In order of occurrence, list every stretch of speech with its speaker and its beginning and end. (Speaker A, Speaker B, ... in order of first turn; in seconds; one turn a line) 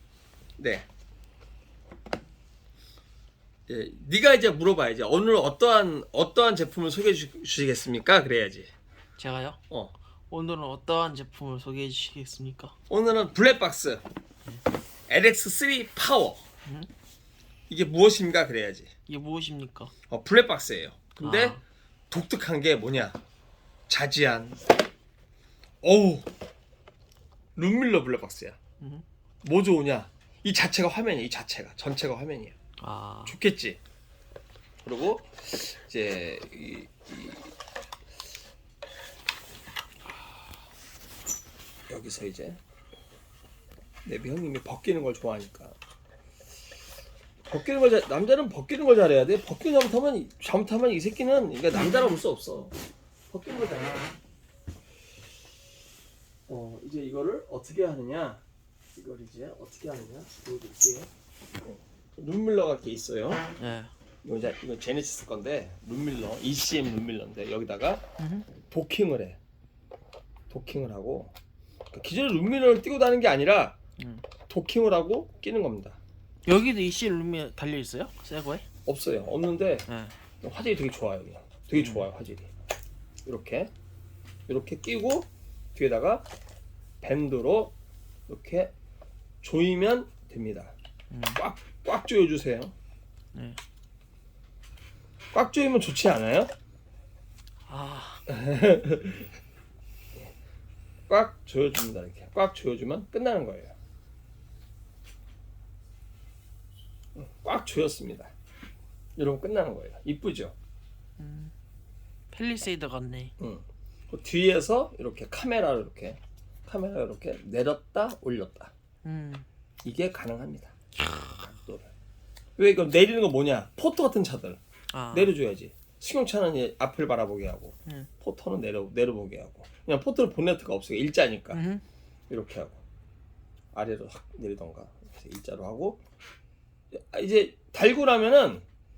Speaker A: 0.6-0.9
Speaker A: 3.7-8.7
Speaker B: 9.2-9.6
Speaker B: 10.3-12.8
Speaker A: 12.9-14.0
Speaker A: 15.1-16.4
Speaker B: 16.6-16.9
Speaker A: 17.7-18.9
Speaker B: 19.1-19.9
Speaker A: 20.1-23.2
Speaker B: 21.2-21.6
Speaker A: 23.9-24.7
Speaker A: 25.8-26.3
Speaker A: 27.6-28.6
Speaker B: 28.8-29.1
Speaker A: 29.4-32.6
Speaker B: 32.8-33.4
Speaker A: 33.3-33.8
Speaker A: 34.8-37.5
Speaker A: 41.9-42.6
Speaker A: 44.0-45.8
Speaker A: 47.5-52.7
Speaker A: 53.3-54.1
Speaker A: 56.5-58.4
Speaker A: 59.0-61.1
Speaker A: 61.6-63.5
Speaker B: 63.6-63.9
Speaker A: 64.2-68.0
Speaker B: 68.2-68.5
Speaker A: 68.6-69.4
Speaker A: 70.5-71.3
Speaker A: 71.9-73.8
Speaker B: 74.0-74.2
Speaker A: 74.5-76.0
Speaker B: 76.5-78.7
Speaker A: 78.9-79.9
Speaker B: 79.9-80.1
Speaker A: 80.4-82.5
Speaker B: 81.8-82.1
Speaker A: 83.2-83.7
Speaker A: 84.5-86.3
Speaker A: 87.0-87.7
Speaker A: 88.3-88.7
Speaker A: 89.4-90.7
Speaker B: 91.1-91.4
Speaker A: 91.4-92.7
Speaker B: 93.3-93.6
Speaker A: 95.3-96.5
Speaker B: 97.7-98.2
Speaker A: 98.3-99.3
Speaker A: 101.1-103.8
Speaker A: 107.2-108.3
Speaker A: 109.2-110.5
Speaker B: 111.2-111.5
Speaker B: 112.3-113.3
Speaker A: 113.4-118.7
Speaker B: 119.0-119.5
Speaker A: 119.8-120.8
Speaker A: 121.4-121.9
Speaker A: 122.6-124.6
Speaker B: 124.9-125.4
Speaker A: 125.1-131.6
Speaker B: 131.5-131.8
Speaker A: 132.3-132.8
Speaker A: 133.7-136.0
Speaker A: 136.9-138.6